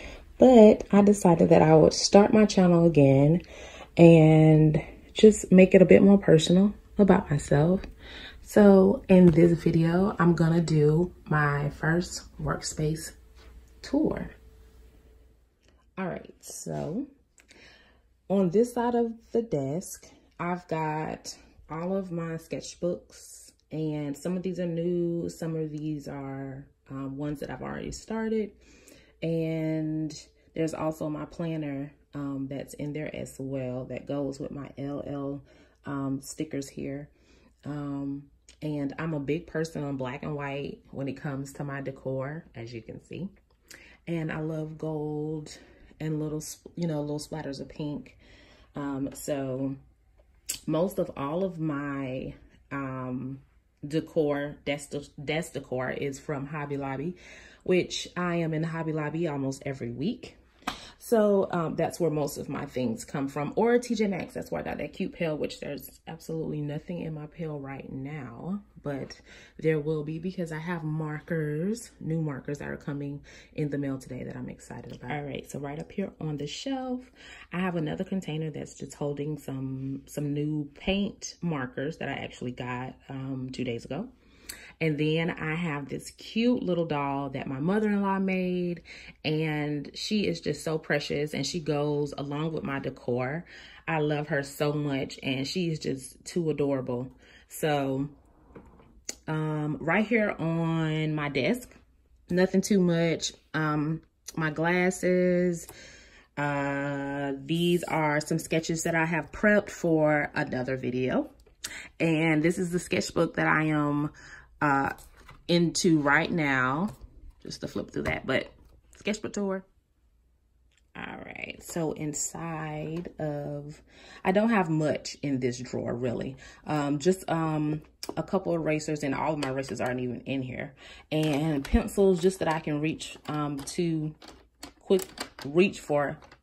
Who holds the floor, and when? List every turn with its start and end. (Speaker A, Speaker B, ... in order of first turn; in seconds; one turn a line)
Speaker A: 0.4-3.4
Speaker A: 4.0-7.8
Speaker A: 8.4-13.2
Speaker A: 13.8-14.3
Speaker A: 16.0-17.1
Speaker A: 18.3-28.6
Speaker A: 29.2-37.1
Speaker A: 37.6-43.3
Speaker A: 44.1-48.2
Speaker A: 48.8-49.8
Speaker A: 50.7-60.4
Speaker A: 61.0-84.1
Speaker A: 84.8-98.1
Speaker A: 99.3-101.8
Speaker A: 102.3-105.7
Speaker A: 106.4-111.3
Speaker A: 112.0-114.9
Speaker A: 115.5-116.9
Speaker A: 117.4-119.7
Speaker A: 120.9-134.2
Speaker A: 134.8-136.2